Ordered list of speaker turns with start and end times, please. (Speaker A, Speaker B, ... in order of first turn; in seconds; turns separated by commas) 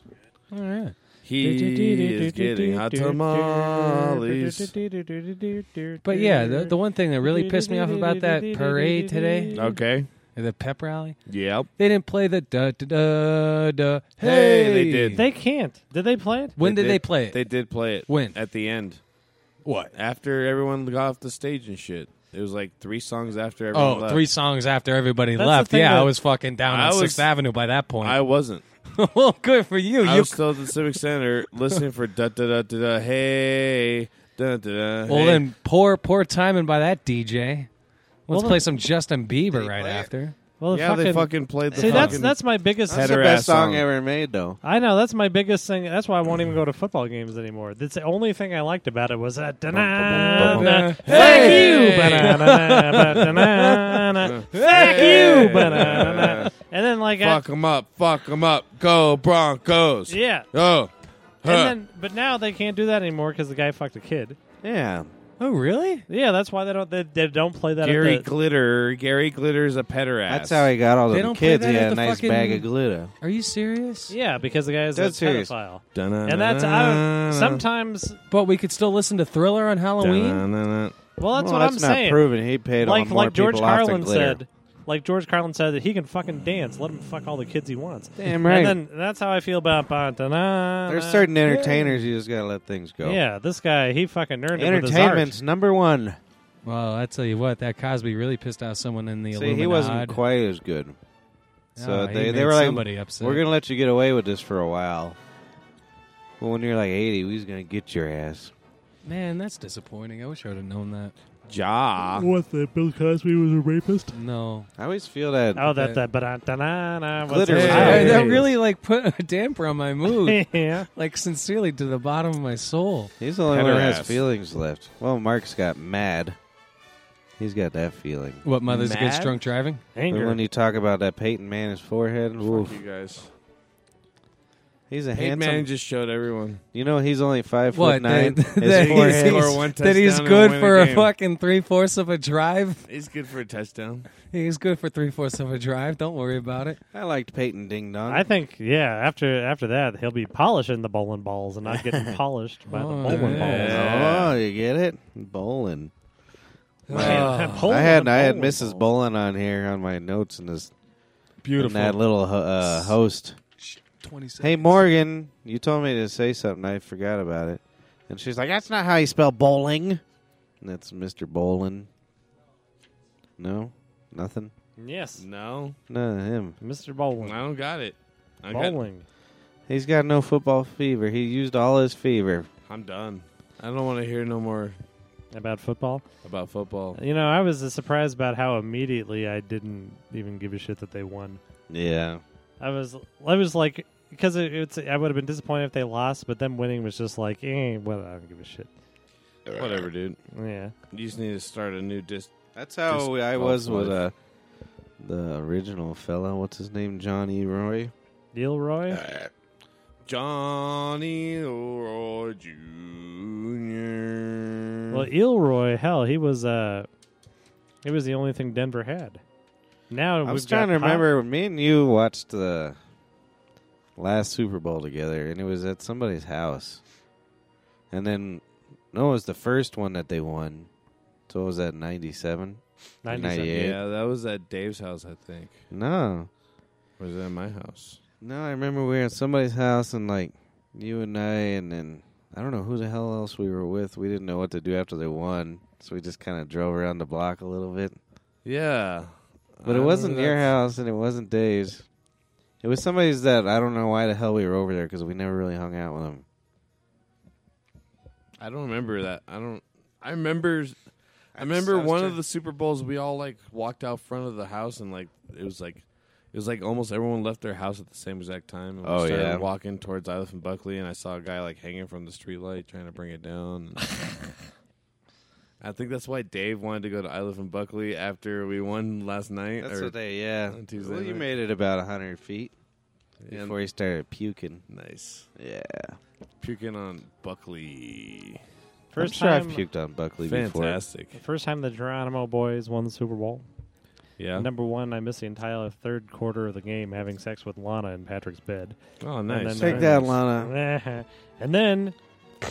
Speaker A: 0.5-0.9, Speaker B: 1.2-4.7, Speaker C: 1.4-9.8, Speaker A: 6.0-9.5, Speaker B: 9.5-10.1, Speaker A: 10.3-11.2, Speaker B: 11.3-11.7, Speaker A: 11.8-15.2, Speaker B: 14.2-15.2, Speaker C: 15.1-16.6, Speaker A: 16.6-18.4, Speaker B: 16.6-19.0, Speaker A: 19.6-19.9, Speaker B: 19.9-24.3, Speaker A: 23.7-28.2, Speaker C: 25.4-26.1, Speaker B: 26.6-27.3, Speaker B: 28.0-28.6, Speaker A: 28.9-30.7, Speaker B: 30.0-35.5, Speaker A: 35.1-37.7, Speaker A: 38.3-40.3, Speaker C: 38.3-38.6, Speaker D: 39.5-40.1, Speaker C: 40.6-43.1, Speaker B: 40.7-43.8, Speaker A: 41.9-42.1, Speaker D: 42.9-44.6, Speaker C: 44.6-57.4, Speaker D: 49.8-50.9, Speaker B: 50.0-52.4, Speaker A: 50.2-56.0, Speaker B: 54.2-56.5, Speaker B: 57.2-60.9, Speaker C: 60.1-60.5, Speaker B: 61.4-61.8, Speaker C: 61.4-64.4, Speaker D: 64.6-65.1, Speaker A: 65.4-66.0, Speaker C: 66.1-68.3, Speaker B: 67.8-70.7, Speaker D: 70.3-73.1, Speaker A: 71.1-72.7, Speaker A: 73.2-74.1, Speaker C: 74.1-78.2, Speaker D: 74.9-75.5, Speaker B: 75.9-77.6, Speaker A: 78.3-80.4, Speaker B: 80.0-81.0, Speaker C: 81.2-82.3, Speaker D: 81.3-84.4, Speaker C: 82.8-91.3, Speaker D: 88.2-88.8, Speaker D: 90.9-93.2, Speaker A: 91.5-91.9, Speaker C: 93.0-95.3, Speaker D: 94.5-96.2, Speaker A: 96.6-100.2, Speaker D: 99.3-101.0, Speaker A: 101.8-103.4, Speaker D: 101.8-105.2, Speaker D: 106.4-108.5, Speaker A: 109.0-111.1, Speaker B: 111.5-112.3, Speaker C: 112.1-114.2, Speaker A: 114.1-114.7, Speaker D: 114.8-115.7, Speaker C: 115.5-118.4, Speaker A: 115.7-116.0, Speaker D: 117.2-118.4, Speaker A: 117.5-123.1, Speaker B: 117.6-118.4, Speaker C: 120.0-120.9, Speaker D: 123.2-126.3, Speaker B: 123.5-124.2, Speaker D: 127.4-128.4, Speaker A: 128.4-129.8, Speaker B: 128.7-129.4, Speaker C: 129.9-130.4, Speaker D: 130.1-132.8, Speaker B: 132.4-133.3, Speaker D: 134.9-135.7, Speaker B: 135.1-136.6, Speaker D: 136.7-139.6, Speaker A: 137.7-142.8, Speaker B: 138.6-141.1, Speaker B: 142.9-144.1, Speaker A: 144.1-146.8, Speaker D: 146.9-148.3, Speaker C: 148.1-154.0, Speaker D: 151.7-152.2, Speaker A: 152.7-153.8, Speaker B: 153.1-154.3, Speaker D: 153.5-155.9, Speaker B: 156.9-157.7, Speaker D: 156.9-160.7, Speaker A: 156.9-157.9, Speaker C: 156.9-158.8, Speaker A: 161.4-162.0, Speaker D: 161.6-163.4, Speaker A: 162.6-162.9, Speaker A: 163.6-164.8, Speaker D: 164.4-170.0, Speaker D: 170.6-171.9, Speaker D: 173.4-174.5, Speaker C: 174.8-175.2, Speaker B: 175.2-175.8, Speaker D: 175.9-176.6, Speaker C: 176.6-177.4, Speaker B: 177.2-178.8, Speaker C: 178.5-179.0, Speaker D: 179.7-182.5, Speaker B: 182.7-184.8, Speaker C: 185.3-186.0, Speaker B: 186.2-187.0, Speaker C: 186.9-191.4, Speaker D: 191.7-192.2, Speaker C: 192.6-198.7, Speaker B: 199.5-200.2, Speaker C: 200.3-200.7, Speaker B: 200.9-202.3, Speaker D: 202.5-204.1, Speaker B: 202.9-204.0, Speaker D: 205.0-207.9, Speaker C: 208.3-209.1, Speaker B: 210.0-215.0, Speaker C: 214.9-216.9, Speaker C: 217.8-219.2, Speaker C: 219.9-221.1, Speaker D: 220.2-222.8, Speaker D: 224.0-226.8, Speaker D: 227.9-230.7, Speaker D: 231.3-233.8, Speaker C: 233.0-233.6, Speaker B: 233.4-235.6, Speaker D: 235.7-236.3, Speaker B: 237.0-238.0, Speaker D: 238.2-247.9, Speaker B: 248.4-250.5, Speaker D: 249.6-251.8, Speaker D: 252.6-256.2, Speaker B: 258.4-260.8, Speaker D: 261.3-262.2, Speaker B: 261.3-274.1, Speaker D: 268.8-269.4, Speaker B: 275.6-279.9, Speaker D: 279.6-282.5, Speaker B: 280.5-281.3, Speaker B: 283.2-283.6, Speaker D: 283.3-284.6, Speaker B: 284.7-285.3, Speaker D: 285.4-286.0, Speaker B: 286.4-288.4, Speaker C: 288.9-289.6, Speaker D: 288.9-290.8, Speaker B: 290.2-291.1, Speaker C: 291.1-293.4, Speaker B: 294.2-294.5, Speaker C: 294.3-301.9, Speaker B: 299.0-300.1, Speaker D: 299.6-300.5